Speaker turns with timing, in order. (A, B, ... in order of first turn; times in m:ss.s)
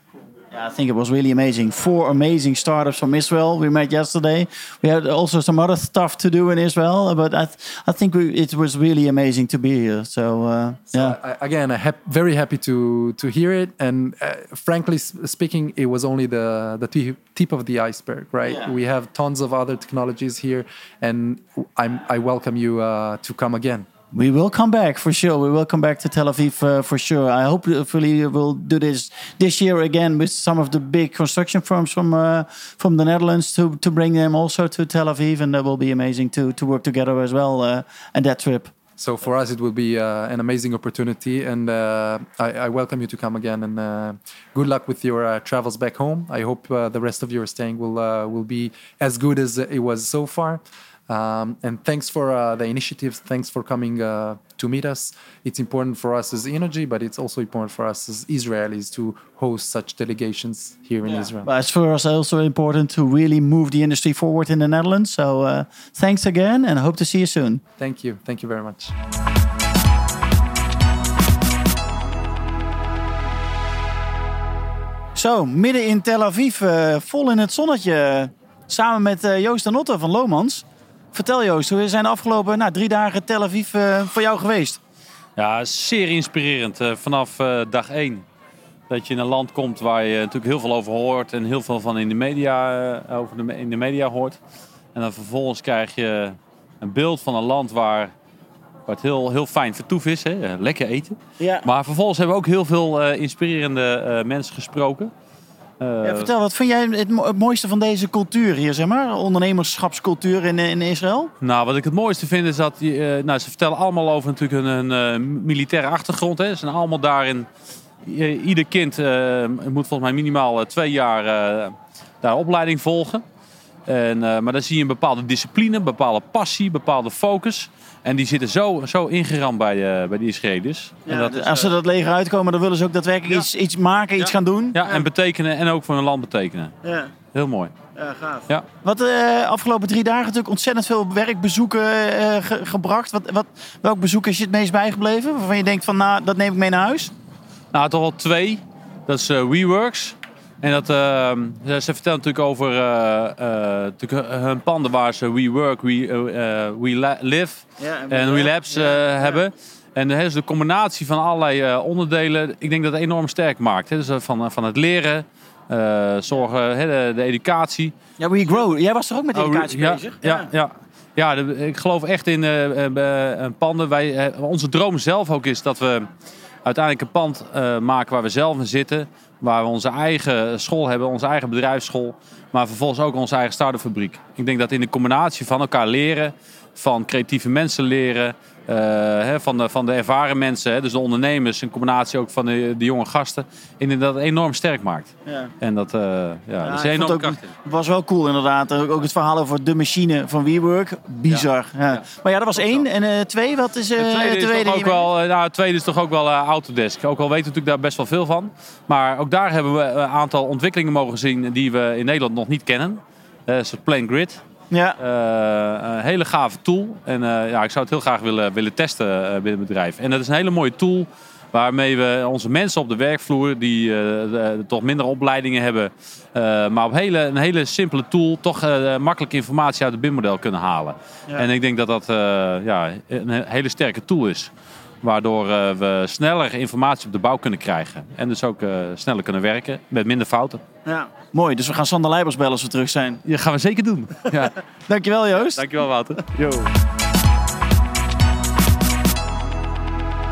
0:00.5-0:11.2 A
0:10.9-0:23.9 B
0:24.1-0:38.7 A
0:39.0-1:01.5 B
1:01.4-1:07.6 A
1:07.8-1:08.9 B
1:15.2-1:24.8 A
1:25.4-1:28.2 C
1:28.9-1:34.4 C
1:34.9-1:38.1 C
1:38.9-1:45.1 C
1:41.4-1:41.7 A
1:45.8-1:46.3 C
1:46.0-1:51.3 A
1:51.4-1:57.5 C
1:58.0-2:03.2 C
2:03.9-2:11.7 C
2:11.1-2:15.0 A
2:14.2-2:16.7 C
2:16.8-2:17.1 A
2:17.3-2:17.7 C
2:18.0-2:27.1 A
2:27.7-2:47.9 C
2:37.8-2:39.4 A
2:48.2-2:50.5 A
2:49.4-2:56.1 C
2:56.6-3:17.5 C
3:15.3-3:15.5 A
3:16.6-3:25.1 A
3:21.3-3:22.0 C
3:24.0-3:34.4 C
3:34.7-3:35.0 A
3:35.0-3:54.5 C
3:55.0-4:00.6 C
4:00.9-4:03.2 A
4:03.2-4:04.6 C
4:04.9-4:05.7 A
4:05.3-4:06.7 C